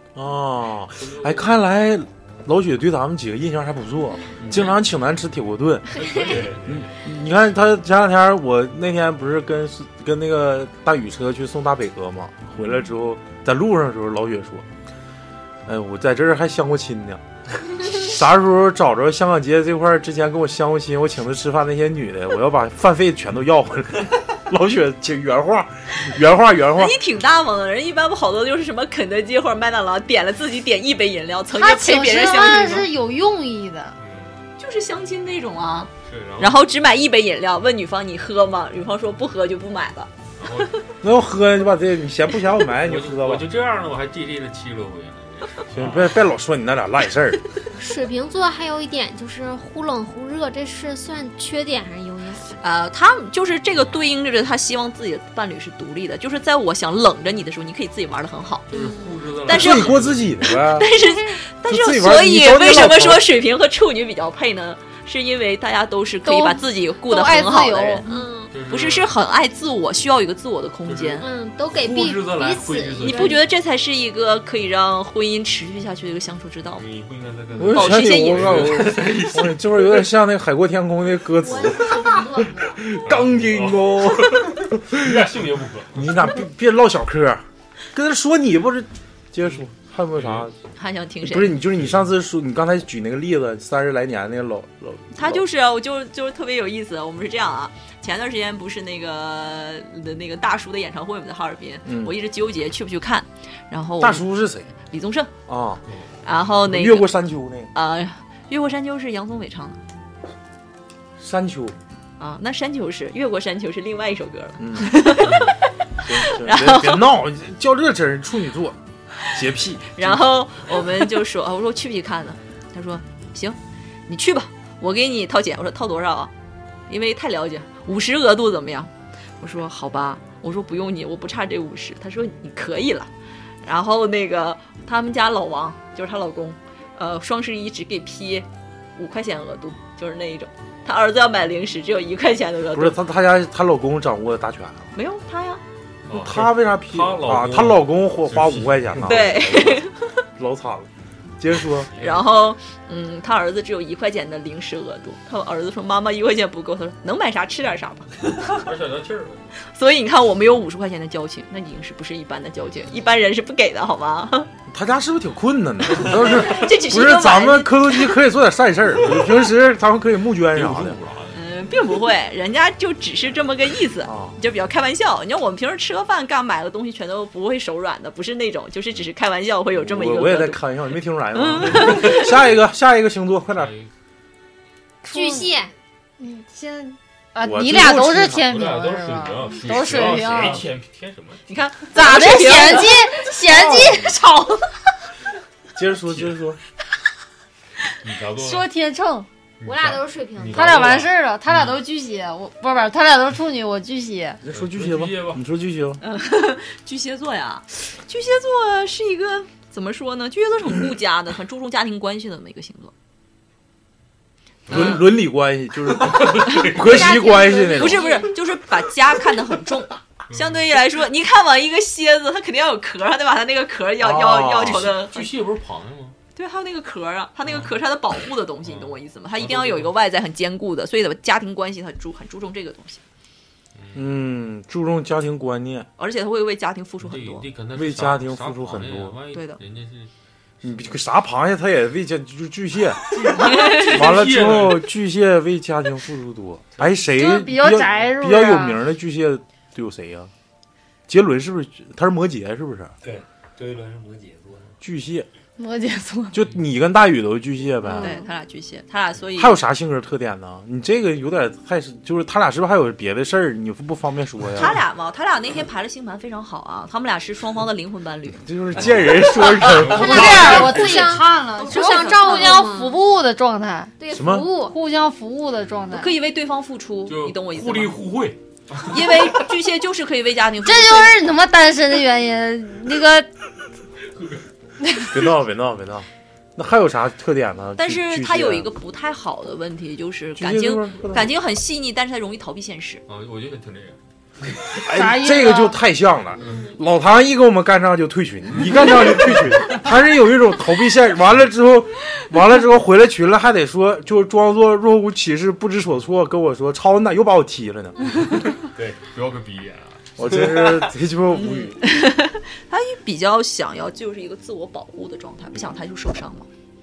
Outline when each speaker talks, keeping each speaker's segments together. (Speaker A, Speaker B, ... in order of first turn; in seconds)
Speaker A: 0.1-14.7, 15.7-17.2, 17.8-26.9, 41.0-43.5, 45.7-47.4, 59.5-60.9, 61.6-63.3, 77.5-85.3, 85.9-90.5, 91.2-95.4, 101.8-102.1, 104.0-104.7, 105.5-105.8, 106.7-107.7, 111.2-111.8, 114.6-115.0, 116.0-120.2, 142.7-144.9, 146.1-150.9, 151.4-151.9, 164.7-171.0, 174.0-174.4, 179.7-183.7, 187.4-188.5, 195.8-196.6, 204.4-206.0, 214.7-218.2, 224.0-224.9, 233.9-235.9, 237.7-239.2, 240.6-243.0, 243.8-250.3, 251.1-252.9, 254.8-255.3, 256.3-258.1, 259.4-264.8, 268.4-270.6, 274.1-274.5, 285.1-288.7, 290.4-291.3, 294.8-308.3, 310.2-311.8
Speaker B: 1.0-1.5, 4.4-4.7, 5.9-7.0, 34.0-34.5, 36.0-36.6, 40.4-40.7, 42.8-46.1, 58.7-60.3, 68.5-69.1, 70.8-73.4, 76.7-80.0, 83.0-86.3, 90.2-90.5, 105.9-106.1, 115.2-115.5, 146.1-149.3, 151.9-152.3, 158.5-159.5, 170.5-171.4, 183.5-183.9, 188.5-191.4, 196.1-196.4, 198.0-198.7, 199.6-201.8, 204.5-205.4, 214.7-215.0, 216.0-217.1, 220.3-220.6, 224.7-226.2, 227.5-227.8, 228.6-229.9, 233.8-234.1, 237.0-240.1, 243.1-244.8, 268.8-271.0, 277.1-279.1, 284.1-284.4, 293.1-294.0, 296.4-296.7, 309.0-310.1
Speaker C: 6.2-6.6, 253.0-254.7
Speaker D: 26.8-32.9, 34.6-40.1, 52.6-58.7, 59.5-60.0, 60.5-68.1, 68.7-71.3, 73.0-76.8, 77.7-79.1, 90.8-91.6, 95.1-104.2, 104.9-105.3, 106.2-107.1, 107.7-109.8, 112.2-117.1, 120.0-126.3, 126.9-128.9, 129.4-133.1, 133.6-143.0, 144.9-145.6, 149.0-150.0, 152.0-158.5, 159.7-164.5, 166.0-168.1, 171.3-182.4, 191.5-193.3, 206.0-212.9, 214.7-215.0, 216.5-225.3, 226.3-233.0, 236.0-237.5, 239.3-239.6, 243.5-243.9, 258.0-259.6, 264.5-268.9, 270.2-270.9, 271.6-272.7, 275.9-278.1, 278.9-281.2, 287.8-293.0, 311.3-316.5
Speaker E: 31.5-34.0, 66.2-68.1, 185.0-185.6, 186.2-190.7, 191.9-194.6, 198.3-199.3, 200.5-204.4, 247.1-248.8, 255.6-256.4, 257.9-258.1, 269.9-273.9, 274.5-276.1, 280.6-283.3, 294.9-295.8
Speaker F: 47.8-52.6, 58.7-59.2, 68.0-68.5, 71.2-73.4, 81.4-82.8, 185.1-185.7, 199.6-200.9, 216.8-218.3, 269.9-273.0, 274.0-274.8, 296.4-296.7